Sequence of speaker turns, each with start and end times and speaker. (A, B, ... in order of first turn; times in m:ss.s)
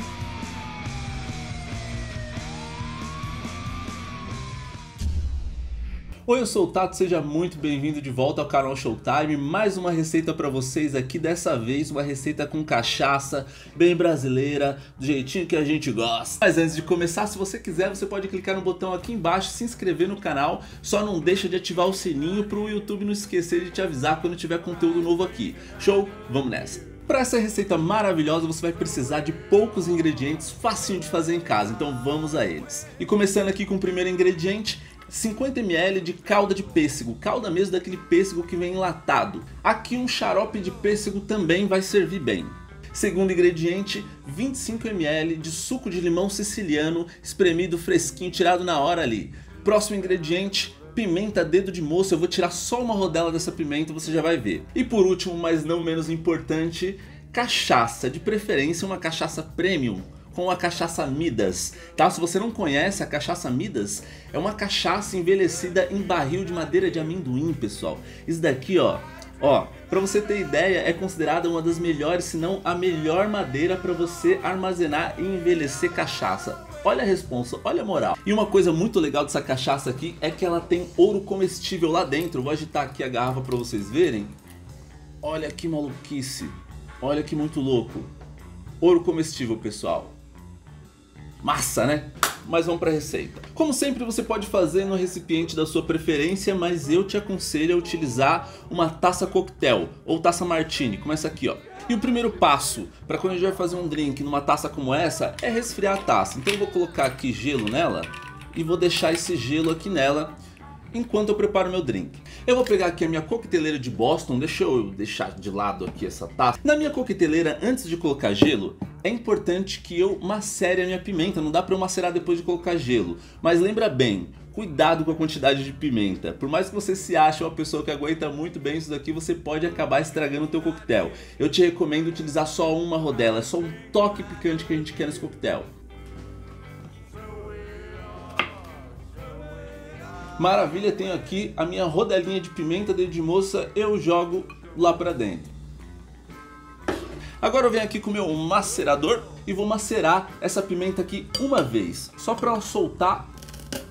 0:06.2-1:24.3 A
1:25.2-1:28.1 A
1:28.8-1:30.1 A
1:31.4-1:50.3 A
1:50.9-2:15.7 A
2:20.4-2:25.5 A
2:27.4-2:33.3 A